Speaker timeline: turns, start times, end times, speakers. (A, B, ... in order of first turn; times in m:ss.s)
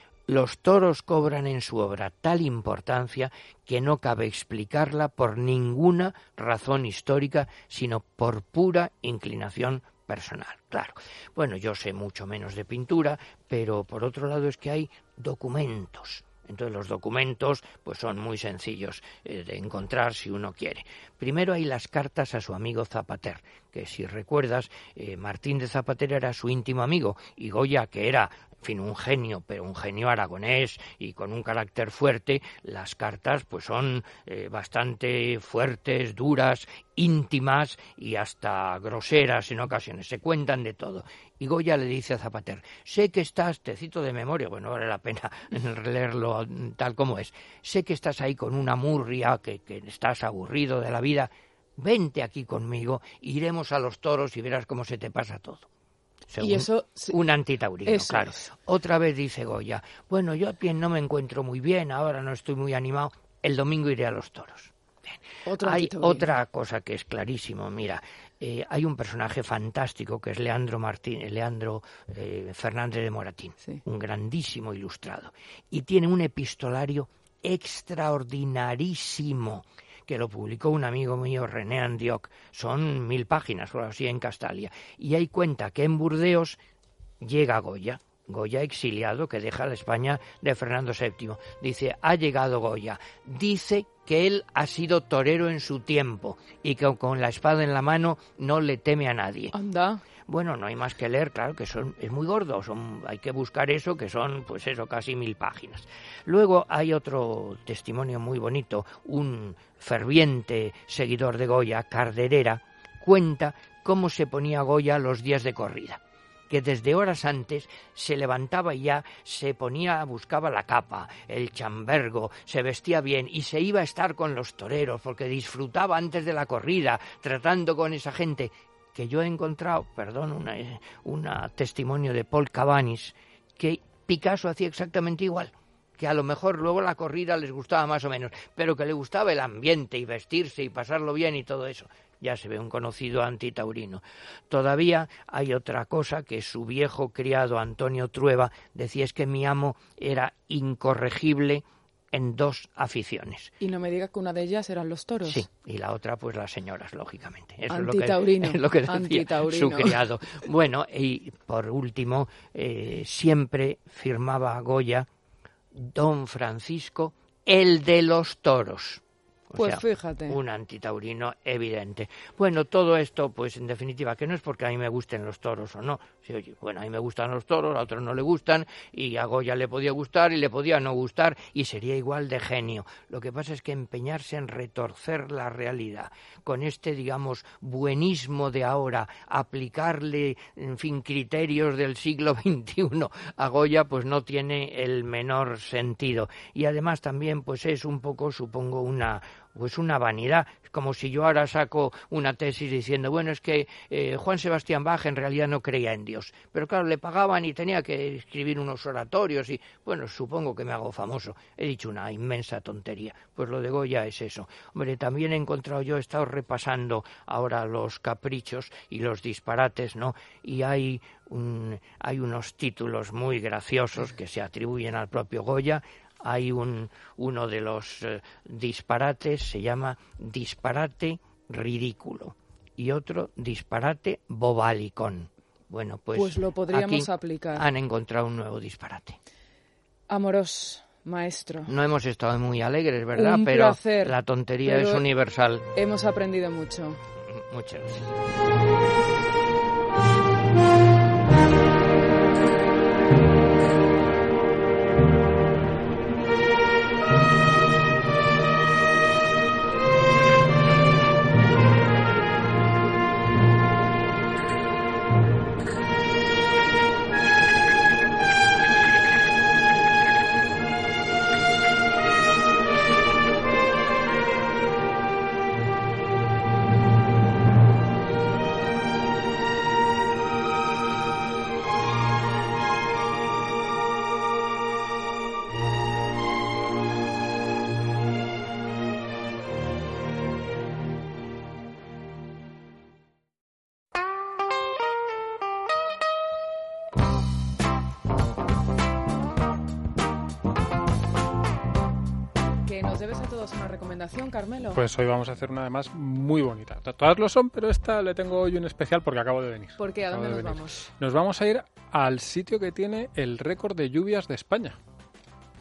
0:00.3-0:55.7 A
0:56.3-1:26.6 A
0:56.4-0:57.2 B
0:57.8-0:58.5 B
1:05.5-1:06.3 B
1:27.2-1:39.5 A
1:39.5-1:40.0 B
1:40.3-2:33.5 A
2:33.6-2:35.4 B
2:35.2-2:45.1 A
2:37.7-2:40.0 B
2:45.7-3:59.2 A
2:49.6-2:50.4 B
3:56.1-3:57.7 B
4:00.1-4:01.7 B
4:01.7-4:05.7 A
4:03.2-4:04.1 B
4:04.6-4:05.0 B
4:05.8-4:07.0 B
4:07.2-4:08.1 A
5:02.6-5:04.8 B
5:04.7-5:14.8 C
5:09.8-5:10.8 B